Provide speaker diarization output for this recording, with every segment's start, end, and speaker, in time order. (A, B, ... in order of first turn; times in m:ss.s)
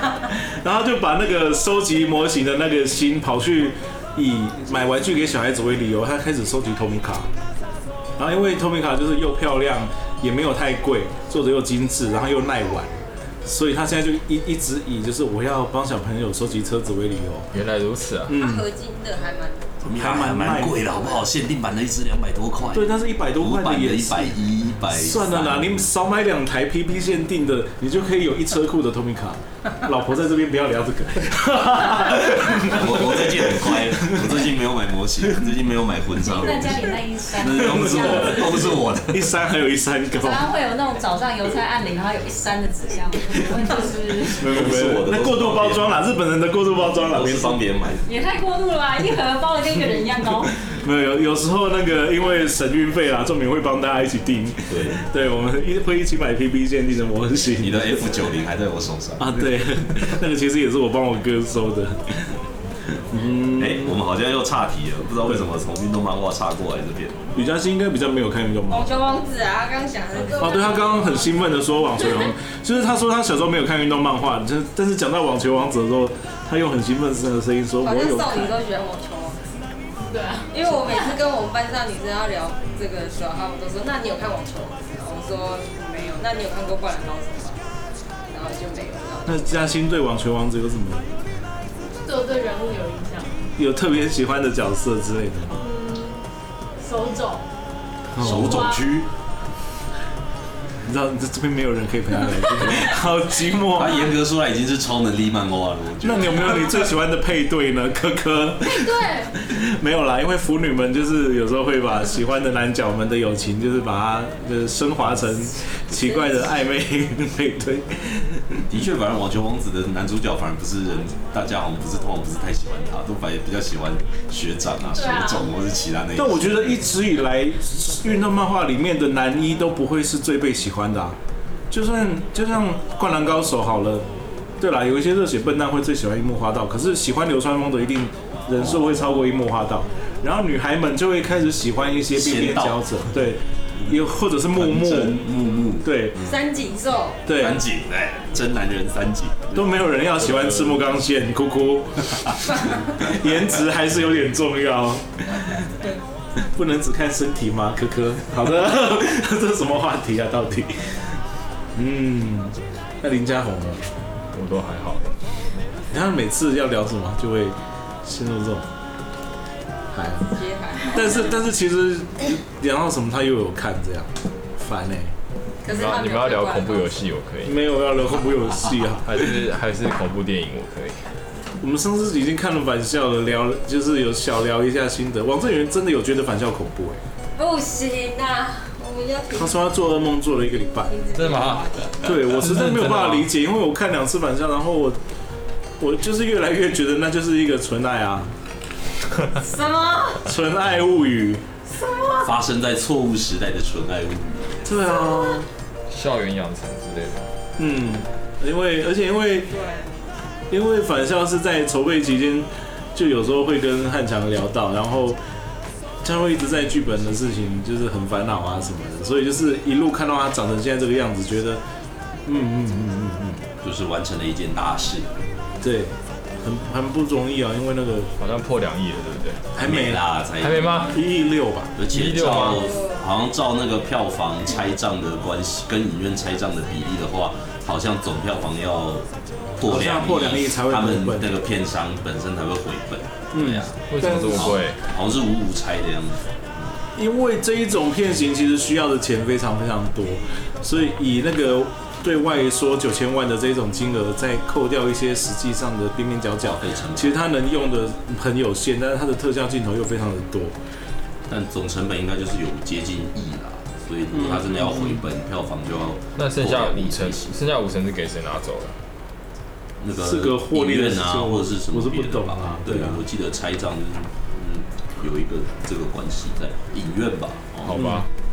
0:00.3-0:07.3 A
0:08.2-0:17.5 A
0:17.5-0:18.4 B
0:18.3-0:18.6 A
0:18.4-0:19.8 C
0:19.8-0:25.9 D
0:19.9-0:20.8 A
0:22.7-0:34.3 A
0:32.1-0:39.3 D
0:36.3-0:38.5 E
0:37.4-0:40.5 A
0:40.2-0:44.4 E
0:44.3-0:47.6 A
0:44.3-0:46.0 D
0:47.1-0:48.2 D
0:48.0-0:50.5 E
0:50.7-0:58.0 A
0:54.7-0:55.0 D
0:57.6-0:59.5 D
0:59.2-1:02.4 A
1:03.1-1:04.0 A
1:03.5-1:07.2 D
1:07.4-1:08.9 A
1:08.7-1:11.4 C
1:10.4-1:18.6 A
1:17.8-1:19.4 C
1:20.0-1:21.1 F
1:20.5-1:27.6 C
1:28.3-1:29.5 C
1:29.3-1:31.1 A
1:32.0-1:33.5 F
1:33.6-1:35.6 A
1:35.6-1:36.2 F
1:36.8-1:37.5 F
1:38.1-1:38.7 A
1:38.2-1:39.1 D
1:38.2-1:38.8 F
1:40.8-1:44.0 A
1:43.7-1:46.8 D
1:46.0-1:58.7 A
1:48.7-1:49.3 F
1:58.7-2:06.6 D
2:04.9-2:05.5 F
2:06.2-2:11.2 A
2:11.7-2:14.1 A
2:14.6-2:25.2 A
2:22.1-2:22.8 D
2:24.5-2:26.4 D
2:25.8-2:26.2 A
2:26.2-2:27.2 C
2:27.3-2:27.6 A
2:27.4-2:29.7 D
2:29.5-2:35.7 A
2:30.2-2:30.8 B
2:36.4-2:41.0 A
2:41.8-2:43.9 A
2:44.3-2:45.2 B
2:45.9-2:48.7 A
2:49.9-2:55.1 A
2:50.3-2:51.3 C
2:55.6-2:57.1 C
2:55.6-2:57.6 B
2:57.4-2:59.2 A
2:59.0-3:01.0 B
3:01.6-3:07.0 A
3:07.4-3:09.7 C
3:09.3-3:11.0 A
3:10.7-3:12.0 C
3:11.1-3:13.3 B
3:12.0-3:15.0 A
3:15.8-3:18.3 A
3:19.4-3:20.3 C
3:20.2-3:21.4 A
3:21.7-3:22.3 C
3:22.2-3:24.7 D
3:24.6-3:25.5 A
3:25.9-3:27.3 B
3:27.6-3:29.5 A
3:29.5-3:29.9 C
3:30.5-3:35.2 A
3:36.0-3:41.6 A
3:42.3-3:43.4 A
3:43.6-3:45.1 D
3:45.6-3:48.1 A
3:48.2-3:49.5 B
3:49.6-3:50.0 A
3:49.6-3:50.8 D
3:50.4-3:51.0 B
3:50.9-3:51.8 A
3:51.8-3:59.1 D
3:51.9-3:52.8 B
3:52.5-3:53.0 C
3:59.6-4:06.7 D
3:59.6-4:01.4 A
4:03.3-4:04.6 A
4:03.9-4:04.8 B
4:07.0-4:20.6 A
4:16.4-4:17.2 D
4:21.3-4:27.4 D
4:24.1-4:25.0 A
4:26.2-4:28.8 B
4:29.8-4:37.8 D
4:30.0-4:33.0 A
4:37.6-4:38.1 B
4:37.7-4:38.1 A